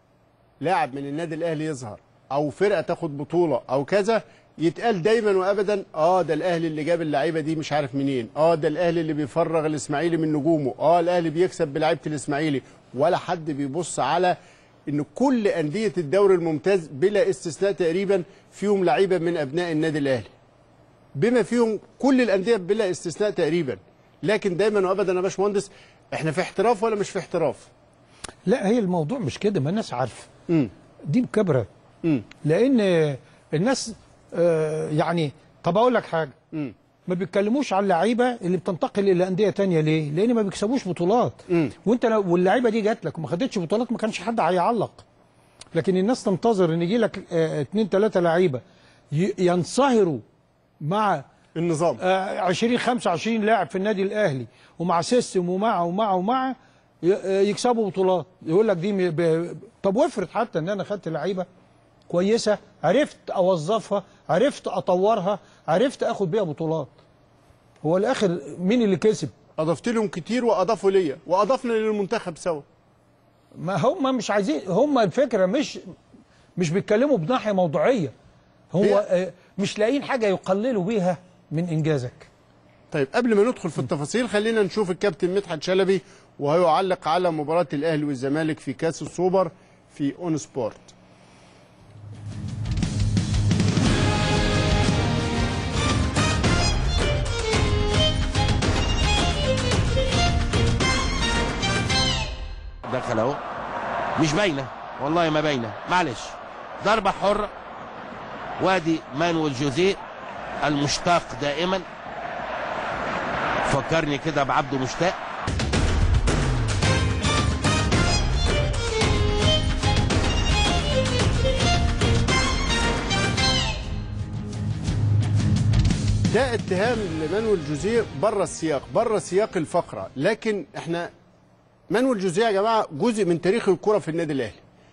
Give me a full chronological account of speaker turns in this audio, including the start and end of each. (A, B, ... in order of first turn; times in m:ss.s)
0:00.6-0:14.4 A
0:14.9-0:20.3 A
0:21.1-0:27.7 A
0:28.4-0:30.3 B
0:31.1-0:31.7 B
0:32.4-0:36.3 B
0:37.1-0:45.0 B
0:45.7-0:48.6 B
0:49.1-0:50.2 B
0:50.8-0:51.2 B
0:51.6-0:52.0 A
0:52.0-1:01.5 B
1:02.1-1:06.9 B
1:07.8-1:09.3 B
1:09.6-1:12.6 A
1:13.6-1:15.8 B
1:16.6-1:18.1 B
1:18.7-1:22.3 B
1:22.9-1:30.9 A
1:42.8-1:43.4 C
1:44.2-1:47.5 C
1:48.6-1:50.0 C
1:50.6-1:51.8 C
1:53.6-1:55.2 C
2:06.3-2:11.1 A
2:11.9-2:14.6 A